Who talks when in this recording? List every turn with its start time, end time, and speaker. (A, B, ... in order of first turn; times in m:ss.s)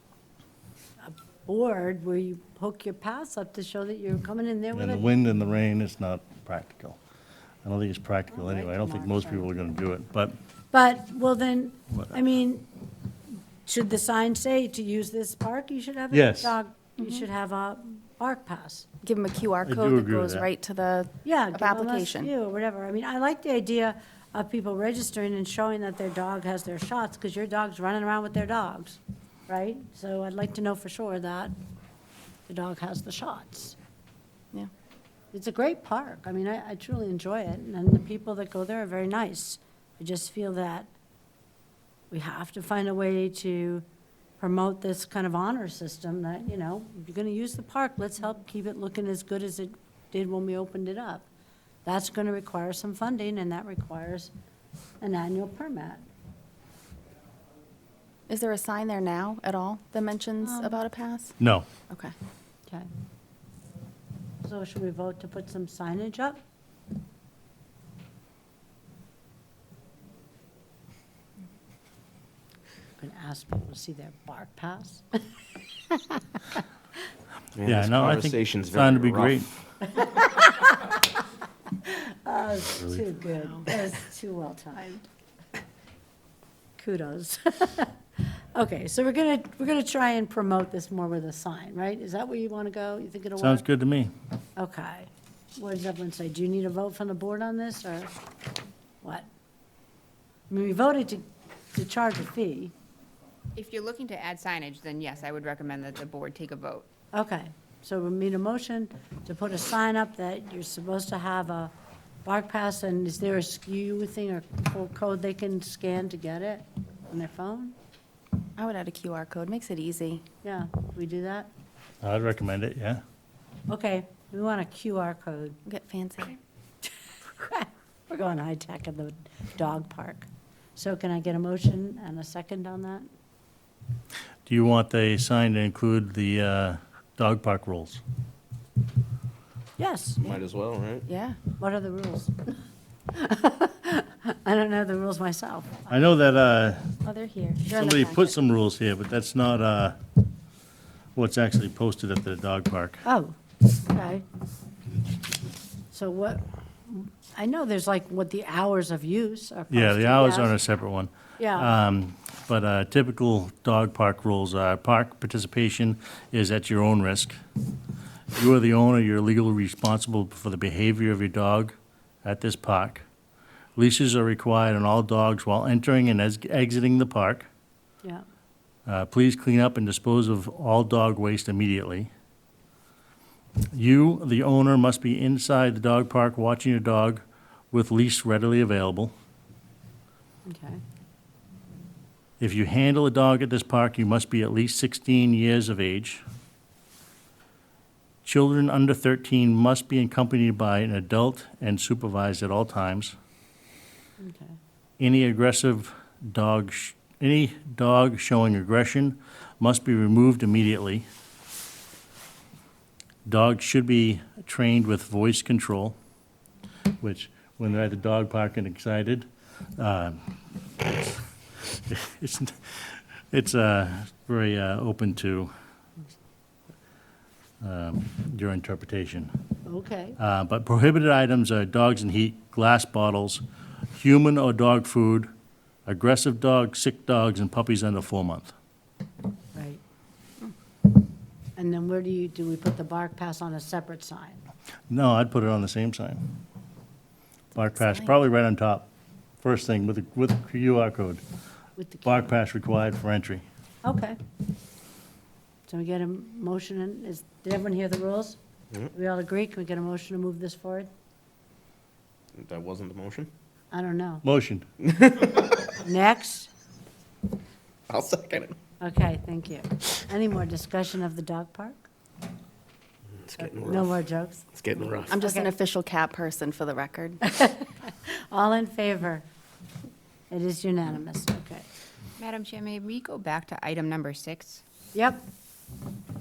0:01.0-0:05.1 A
0:04.7-0:07.0 B
0:07.6-0:10.3 B
0:08.3-0:09.5 A
0:10.7-0:12.7 A
0:13.6-0:18.9 A
0:16.1-0:16.6 B
0:19.0-0:22.3 C
0:19.6-0:20.5 B
0:21.2-0:31.5 A
0:32.5-0:33.8 A
0:35.3-0:40.9 A
0:42.1-0:43.8 A
0:44.4-0:51.2 A
0:51.8-0:54.3 A
0:55.0-0:56.0 A
0:58.3-1:01.4 C
1:00.4-1:00.7 A
1:01.4-1:01.6 B
1:04.4-1:06.4 A
1:13.0-1:15.2 A
1:15.9-1:16.6 A
1:17.6-1:19.4 D
1:17.6-1:19.5 B
1:19.8-1:21.1 A
1:21.8-1:25.0 A
1:26.8-1:33.6 A
1:33.4-1:34.1 B
1:34.6-1:38.1 A
1:40.5-1:42.7 A
1:43.6-1:46.9 E
1:47.1-1:51.7 A
1:52.2-1:57.8 A
1:58.6-2:00.2 C
2:00.4-2:01.5 A
2:02.0-2:03.0 B
2:03.7-2:05.6 A
2:05.6-2:06.4 C
2:07.4-2:13.1 A
2:14.5-2:18.0 B
2:19.8-2:20.3 A
2:20.2-2:21.1 D
2:21.1-2:21.4 C
2:21.6-2:22.5 A
2:23.1-2:26.0 A
2:25.9-2:27.0 B
2:27.0-2:28.3 C
2:27.6-2:30.0 B
2:31.2-2:33.0 B
2:33.0-2:34.2 A
2:35.9-2:40.5 A
2:39.7-2:47.4 B
2:41.4-2:41.7 A
2:48.3-2:53.0 B
2:53.8-2:57.5 B
2:58.9-3:02.1 B
3:03.7-3:09.1 B
3:10.4-3:10.8 A
3:12.4-3:16.2 B
3:18.2-3:23.1 B
3:24.2-3:24.6 A
3:25.0-3:31.0 B
3:33.2-3:36.0 B
3:37.0-3:45.5 B
3:47.6-3:49.3 B
3:49.6-3:50.2 A
3:50.2-3:55.3 B
3:55.8-3:58.5 B
3:59.5-3:59.8 A
4:01.6-4:04.4 A
4:04.9-4:06.2 B
4:07.5-4:08.9 B
4:09.4-4:11.2 B
4:11.8-4:12.3 A
4:12.0-4:13.4 B
4:13.8-4:14.2 A
4:15.7-4:18.4 A
4:18.9-4:20.9 A
4:22.4-4:23.3 D
4:23.7-4:24.2 A
4:24.2-4:24.6 B
4:24.9-4:25.5 D
4:25.8-4:26.5 A
4:27.9-4:28.6 D
4:28.8-4:31.8 A
4:33.3-4:33.9 D
4:33.4-4:34.4 A
4:34.6-4:35.2 D
4:35.1-4:37.2 C
4:37.2-4:39.2 A
4:40.3-4:41.6 A
4:42.2-4:44.6 E
4:44.9-4:45.2 A